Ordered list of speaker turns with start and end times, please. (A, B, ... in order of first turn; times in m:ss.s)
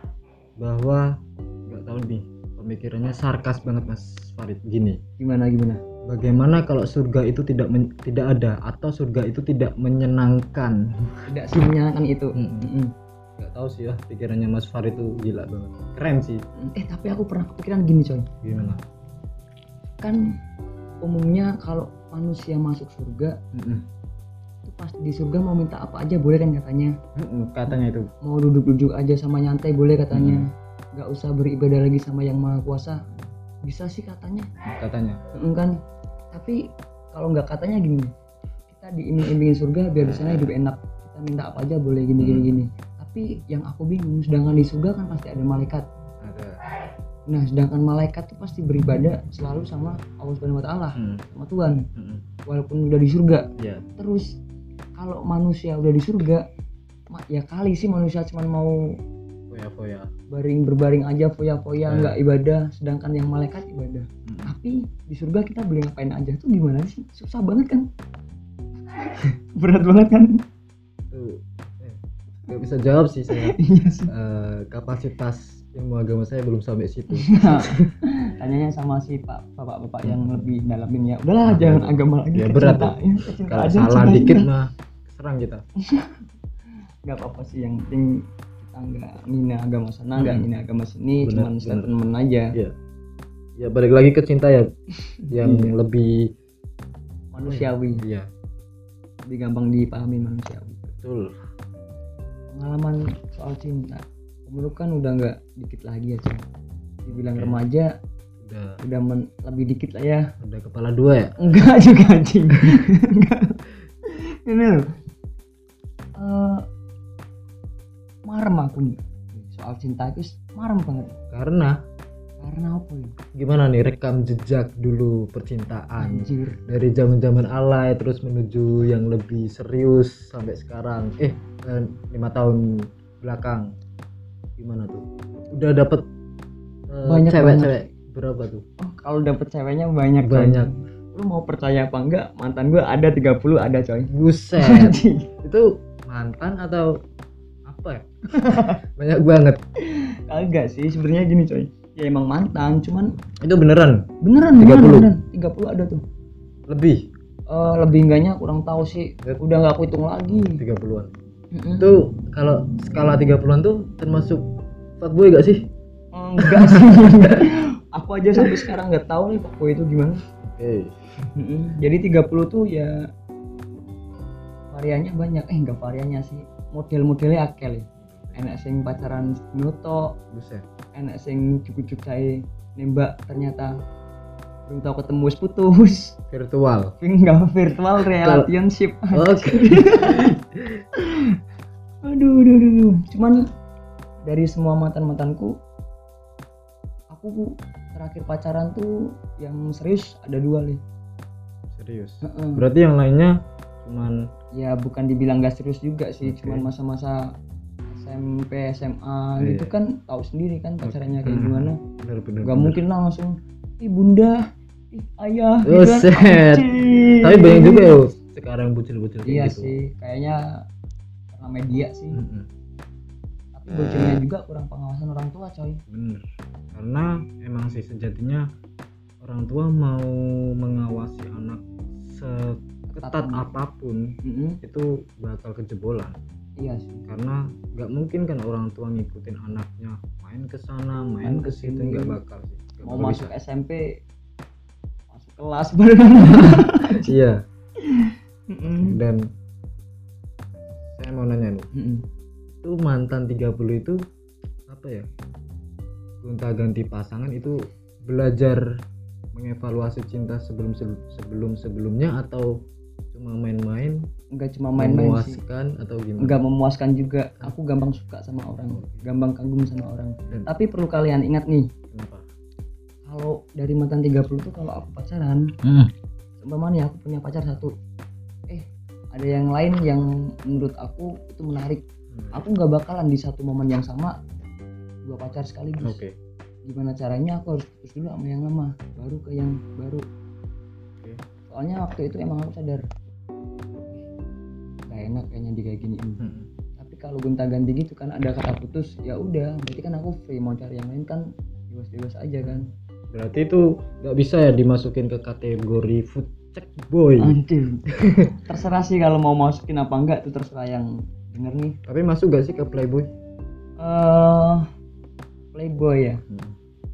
0:00.6-0:05.0 A
0:05.2-0:05.8 B
0:06.0-0:11.7 A
0:11.3-0:12.9 B
0:12.3-0:12.7 A
0:13.4-0:16.4 A
0:16.6-0:18.3 B
0:18.4-0:18.8 A
0:20.0-0:20.3 B
0:21.0-0:23.4 B
0:23.5-0:23.8 A
0:24.6-0:27.0 B
0:27.2-0:28.1 A
0:28.2-0:33.0 B
0:30.1-0:30.4 A
0:33.6-0:34.5 B
0:34.6-0:35.2 A
0:35.3-0:35.7 B
0:36.3-0:36.6 B
0:37.1-0:38.1 B
0:38.7-0:45.9 B
0:42.2-0:42.5 A
0:46.2-0:46.6 A
0:47.3-0:51.8 B
0:51.0-0:51.2 A
0:51.9-0:52.2 A
0:52.4-0:54.4 B
0:53.6-0:53.8 A
0:55.0-0:56.4 B
0:57.1-0:58.8 B
0:59.5-1:00.1 A
1:00.3-1:07.9 B
1:01.8-1:02.2 A
1:04.2-1:04.5 A
1:08.9-1:10.4 B
1:11.1-1:17.9 A
1:13.3-1:14.1 B
1:17.1-1:24.5 B
1:20.0-1:20.5 A
1:21.4-1:25.6 A
1:25.8-1:26.2 B
1:27.0-1:32.6 B
1:30.2-1:30.4 A
1:31.2-1:31.9 A
1:33.6-1:34.7 A
1:35.2-1:35.7 B
1:35.3-1:36.3 A
1:37.3-1:38.0 B
1:37.4-1:38.3 A
1:39.3-1:40.8 B
1:40.9-1:41.3 A
1:42.5-1:46.4 B
1:47.0-1:47.9 B
1:47.1-1:47.6 A
1:48.4-1:48.8 A
1:48.8-1:50.3 B
1:50.4-1:51.4 A
1:51.4-1:54.8 B
1:56.2-1:56.6 B
1:58.2-2:01.2 B
2:01.3-2:01.8 A
2:02.4-2:03.2 B
2:03.4-2:13.7 A
2:06.0-2:06.6 B
2:14.6-2:16.0 A
2:16.9-2:18.6 A
2:17.0-2:17.8 B
2:18.8-2:25.3 B
2:20.2-2:20.7 A
2:24.1-2:27.0 A
2:27.6-2:29.6 A
2:28.3-2:28.8 B
2:29.8-2:33.1 B
2:33.4-2:35.1 A
2:34.2-2:36.0 B
2:36.7-2:37.1 A
2:37.5-2:40.6 B
2:40.3-2:41.1 A
2:41.5-2:41.9 B
2:41.8-2:44.4 A
2:45.0-2:45.7 A
2:46.1-2:50.2 B
2:46.4-2:47.4 A
2:50.4-2:51.0 A
2:51.4-2:53.0 B
2:54.7-3:00.2 B
2:58.0-2:58.4 A
3:00.3-3:00.6 A
3:00.9-3:03.7 B
3:04.7-3:06.2 B
3:06.3-3:07.0 A
3:07.0-3:10.4 B
3:08.0-3:08.5 A
3:09.1-3:10.4 A
3:10.9-3:11.4 B
3:12.0-3:13.4 B
3:14.2-3:15.6 B
3:17.1-3:20.8 B
3:21.7-3:24.3 A
3:22.2-3:22.6 B
3:24.5-3:27.2 B
3:26.2-3:26.7 A
3:27.9-3:31.8 B
3:29.4-3:29.7 A
3:30.8-3:32.8 A
3:32.4-3:38.1 B
3:35.6-3:39.7 A
3:39.2-3:40.4 B
3:41.3-3:42.2 B
3:42.1-3:42.5 A
3:43.5-3:45.8 B
3:45.9-3:48.5 A
3:49.2-3:56.2 A
3:52.9-3:53.5 B
3:54.2-3:54.6 B
3:56.6-3:57.0 B
3:57.1-4:03.3 A
4:01.2-4:02.2 B
4:02.8-4:04.0 B
4:05.1-4:07.1 B
4:06.2-4:07.4 A
4:07.8-4:09.0 B
4:08.6-4:09.2 A
4:11.0-4:11.7 A
4:11.7-4:12.0 B
4:12.6-4:14.0 A
4:14.7-4:15.1 A
4:16.2-4:18.6 A
4:19.3-4:22.5 A
4:23.1-4:24.0 A
4:24.3-4:25.4 B
4:24.8-4:26.4 A
4:26.2-4:31.7 B
4:28.6-4:29.0 A
4:31.9-4:32.2 A
4:33.0-4:35.5 B
4:35.6-4:35.9 A
4:36.4-4:37.7 B
4:38.5-4:44.1 B
4:42.1-4:42.4 A
4:45.1-4:46.0 B
4:45.8-4:46.1 A
4:46.6-4:50.0 B
4:51.5-4:52.8 B
4:54.9-4:56.2 B
4:56.2-4:56.5 A
4:56.8-5:02.7 B
5:02.4-5:07.4 A
5:07.2-5:11.8 B
5:07.9-5:08.4 A
5:11.8-5:13.1 A
5:13.8-5:14.6 B
5:15.5-5:16.2 B
5:16.3-5:16.6 A